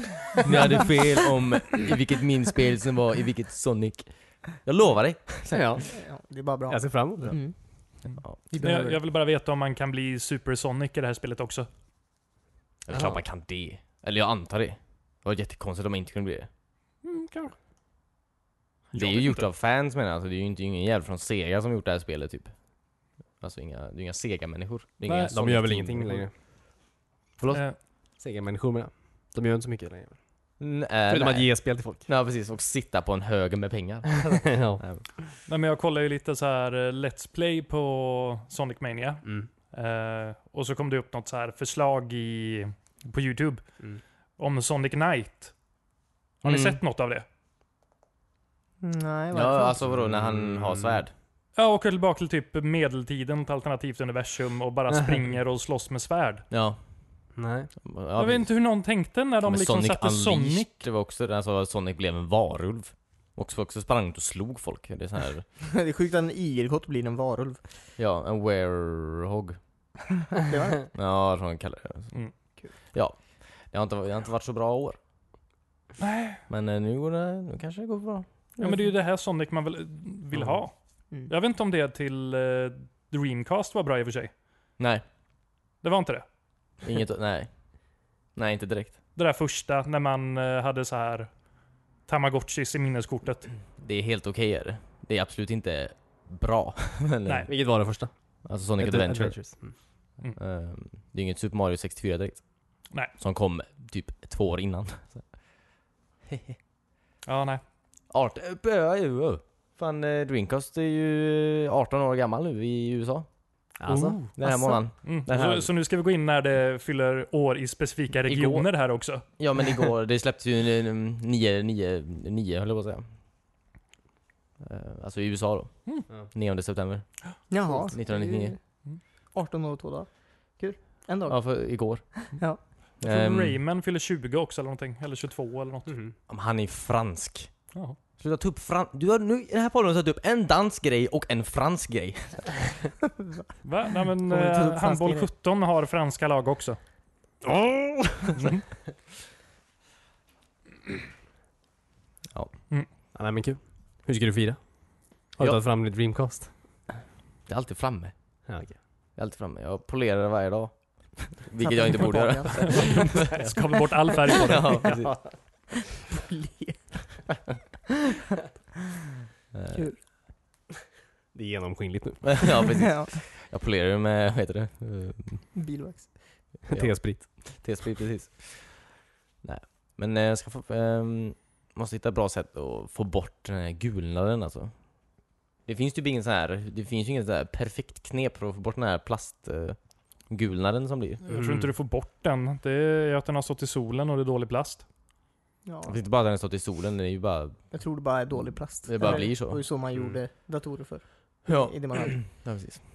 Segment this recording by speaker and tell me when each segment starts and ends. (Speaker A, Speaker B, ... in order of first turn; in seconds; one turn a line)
Speaker A: 0.4-5.8
Speaker B: 5.5-5.9
Speaker C: 5.9-7.5
Speaker B: 6.7-7.4
Speaker A: 8.1-8.4
Speaker C: 8.5-9.0
Speaker D: 8.6-11.7
Speaker A: 12.9-16.5
Speaker D: 17.0-17.5
Speaker D: 18.9-19.4
Speaker A: 18.9-22.6
Speaker A: 23.4-26.2
Speaker D: 25.1-25.4
Speaker B: 25.3-26.3
Speaker D: 27.5-27.8
Speaker B: 28.2-30.2
Speaker A: 30.6-35.0
Speaker B: 31.1-32.1
Speaker B: 34.3-34.8
Speaker D: 35.5-43.9
Speaker D: 44.4-45.5
Speaker D: 46.4-47.2
Speaker A: 46.5-46.8
Speaker C: 48.8-49.8
Speaker A: 49.3-51.1
Speaker B: 50.0-51.0
Speaker D: 51.5-56.5
Speaker A: 56.5-56.8
Speaker B: 57.4-57.7
Speaker A: 57.8-58.5
Speaker D: 58.2-60.7
Speaker A: 59.4-65.5
Speaker C: 65.6-67.6
Speaker A: 68.0-69.6
Speaker C: 70.4-70.9
Speaker A: 70.9-72.1
Speaker A: 72.9-75.0
Speaker D: 76.0-76.4
Speaker A: 76.5-78.3
Speaker D: 78.6-84.3
Speaker D: 85.8-86.2
Speaker A: 86.8-87.5
Speaker A: 88.3-89.0
Speaker D: 89.2-91.3
Speaker D: 92.0-93.5
Speaker A: 93.8-97.5
Speaker B: 97.5-98.1
Speaker A: 98.5-99.4
Speaker B: 98.8-99.8
Speaker A: 100.4-102.5
Speaker A: 103.2-105.2
Speaker A: 106.3-106.5
Speaker D: 107.3-107.6
Speaker A: 108.1-113.3
Speaker B: 113.8-114.2
Speaker D: 113.9-119.2
Speaker A: 114.3-115.7
Speaker A: 118.2-118.7
Speaker A: 119.4-123.0
Speaker A: 124.6-128.6
Speaker C: 127.5-128.6
Speaker C: 129.3-132.6
Speaker A: 131.3-132.3
Speaker A: 133.0-133.6
Speaker D: 133.0-135.9
Speaker B: 135.9-136.1
Speaker A: 136.3-137.5
Speaker A: 138.2-142.8
Speaker D: 143.6-146.8
Speaker C: 144.2-145.3
Speaker A: 147.4-148.4
Speaker D: 148.4-148.6
Speaker B: 153.1-156.6
Speaker A: 157.5-158.1
Speaker B: 158.5-158.8
Speaker A: 159.2-165.4
Speaker C: 161.6-162.8
Speaker D: 162.0-165.1
Speaker C: 165.9-167.5
Speaker A: 169.5-169.9
Speaker B: 171.3-172.7
Speaker A: 172.2-175.4
Speaker C: 172.8-173.1
Speaker C: 175.6-176.2
Speaker B: 176.7-177.3
Speaker A: 176.7-184.7
Speaker A: 185.7-191.2
Speaker D: 191.2-194.9
Speaker B: 191.3-191.7
Speaker C: 195.6-196.0
Speaker A: 195.8-197.6
Speaker C: 197.7-202.2
Speaker A: 198.4-199.6
Speaker B: 199.9-200.2
Speaker A: 201.5-202.8